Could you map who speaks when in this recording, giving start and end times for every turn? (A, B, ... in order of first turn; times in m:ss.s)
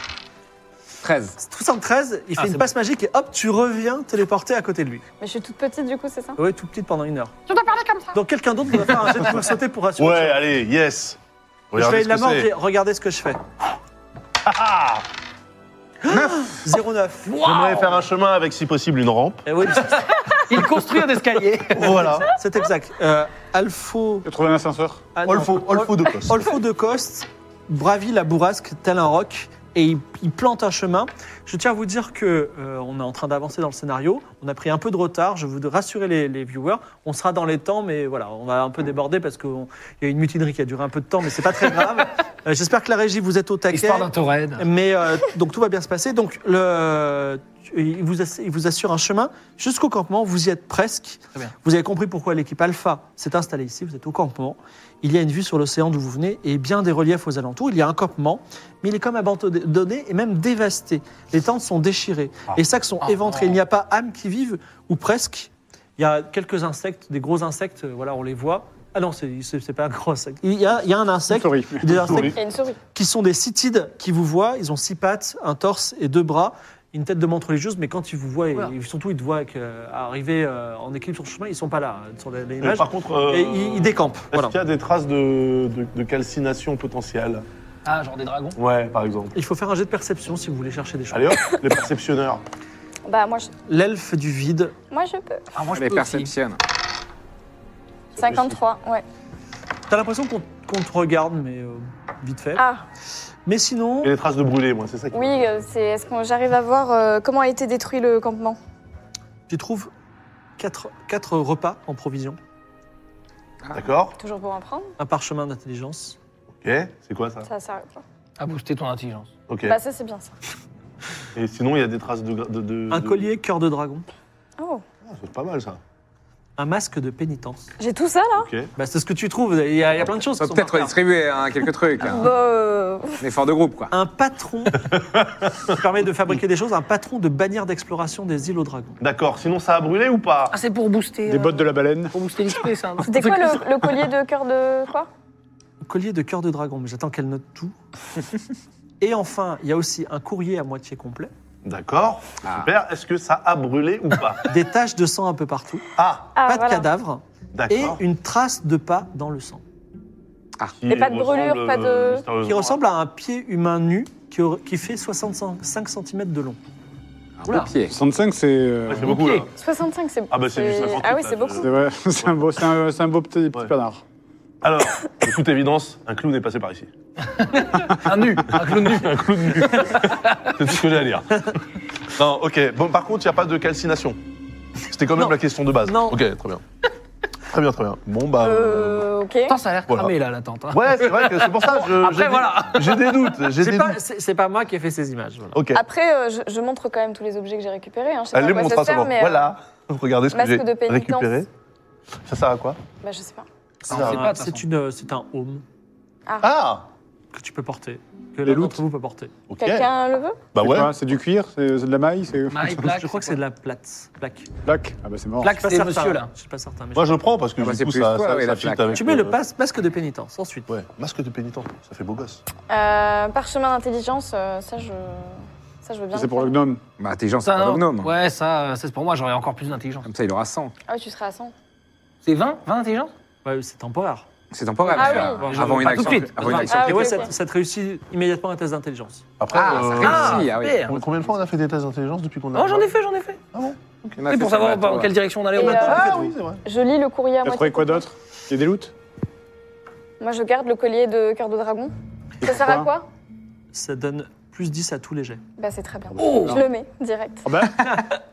0:01.0-0:01.4 A
0:01.4-0:05.0 B
0:02.4-0:02.6 C
0:05.2-0:06.4 D
0:06.4-0:07.3 B
0:07.5-0:08.1 C
0:08.1-0:10.4 B
0:10.0-0:11.2 E
0:11.7-0:12.5 E
0:11.7-0:13.4 B
0:14.4-0:15.0 E
0:16.0-0:17.4 B
0:17.2-0:17.9 C
0:17.3-0:19.4 E
0:19.4-0:20.1 B
0:19.9-0:22.1 C
0:21.7-0:22.3 E
0:21.8-0:24.3 B
0:24.2-0:25.0 F
0:25.1-1:12.4 B
0:25.2-0:26.5 E
0:43.7-0:44.6 C
1:03.0-1:03.6 C
1:11.3-1:12.0 F
1:11.9-1:12.4 E
1:12.1-1:12.8 D
1:12.9-1:24.6 B
1:22.6-1:27.4 E
1:27.8-1:28.6 C
1:28.6-1:29.3 E
1:29.3-1:31.4 B
1:31.1-1:32.4 E
1:33.0-1:33.5 D
1:33.7-1:34.7 B
1:34.9-1:35.4 D
1:35.5-1:36.3 C
1:35.7-1:36.6 A
1:38.1-1:38.6 E
1:38.2-1:39.0 D
1:39.9-1:42.6 B
1:42.6-1:42.8 D
1:43.4-1:44.1 B
1:44.0-1:45.5 E
1:45.1-1:48.6 D
1:49.5-1:49.9 B
1:50.6-1:52.4 B
1:53.7-1:54.2 E
1:54.2-1:54.9 D
1:55.0-1:56.2 B
1:56.6-1:57.5 E
1:57.4-1:58.0 D
1:58.4-1:59.3 C
1:59.5-1:59.8 E
1:59.6-2:00.3 D
2:01.3-2:03.3 E
2:02.9-2:04.0 B
2:04.6-2:04.8 D
2:05.0-2:05.8 E
2:06.6-2:07.7 B
2:07.8-2:08.5 D
2:08.4-2:08.7 E
2:08.8-2:11.0 B
2:10.4-2:12.3 A
2:12.0-2:13.2 D
2:13.2-2:13.9 A
2:13.9-2:19.0 B
2:19.0-2:20.6 E
2:20.5-2:24.0 C
2:21.3-2:22.1 F
2:23.0-2:25.1 D
2:25.8-2:27.8 B
2:29.0-2:31.3 B
2:31.6-2:34.5 E
2:32.4-2:32.7 A
2:34.5-2:35.8 B
2:36.0-2:36.3 E
2:36.3-2:36.9 D
2:36.4-2:39.6 B
2:37.5-2:38.0 E
2:40.8-2:42.8 E
2:40.9-2:42.2 D
2:42.4-2:46.6 B
2:47.4-2:47.9 A
2:47.9-2:49.2 F
2:48.9-2:49.5 E
2:49.0-2:49.4 C
2:49.5-2:51.7 D
2:50.3-2:51.7 E
2:51.6-2:54.0 F
2:54.6-2:56.9 E
2:57.4-3:00.5 C
2:58.5-3:01.6 E
3:02.1-3:04.2 E
3:04.9-3:06.6 E
3:05.1-3:06.2 B
3:07.5-3:09.1 E
3:08.4-3:09.6 D
3:09.5-3:13.3 C
3:09.9-3:10.1 E
3:10.7-3:14.0 E
3:13.5-3:15.6 B
3:15.5-3:15.8 E
3:15.7-3:19.5 D
3:18.3-3:21.5 E
3:20.3-3:21.4 D
3:22.2-3:22.8 E
3:23.0-3:23.4 D
3:23.8-3:24.3 E
3:23.9-3:24.6 C
3:23.9-3:25.6 B
3:26.3-3:26.5 D
3:26.4-3:26.9 E
3:27.3-3:29.3 B
3:28.4-3:28.8 F
3:29.5-3:29.9 E
3:29.6-3:30.4 D
3:30.5-3:30.9 E
3:30.6-3:32.8 F
3:32.5-3:33.4 C
3:32.7-3:34.5 B
3:34.6-3:35.6 F
3:35.4-3:36.3 C
3:35.4-3:37.2 B
3:36.9-3:39.4 E
3:37.6-3:39.0 A
3:38.9-3:40.7 B
3:40.7-3:42.4 E
3:42.7-3:46.6 D
3:46.1-3:46.8 F
3:47.0-3:48.1 A
3:47.4-3:50.1 C
3:50.0-3:50.7 A
3:50.9-3:51.5 D
3:52.2-3:53.1 C
3:53.4-3:54.3 B
3:54.5-3:57.2 A
3:54.9-3:57.2 C
3:54.9-3:59.2 B
3:54.9-3:55.5 D
3:56.7-3:57.3 D
3:59.4-4:03.0 E
3:59.5-4:00.9 A
3:59.7-4:01.0 C
4:02.5-4:03.4 C
4:03.5-4:04.1 E
4:04.2-4:05.1 A
4:04.3-4:06.2 C
4:05.5-4:08.0 D
4:05.6-4:06.6 E
4:07.4-4:08.9 F
4:10.2-4:13.1 D
4:12.4-4:12.9 F
4:13.7-4:15.4 B
4:15.6-4:17.6 D
4:16.2-4:16.6 C
4:16.2-4:16.6 F
4:17.4-4:18.0 F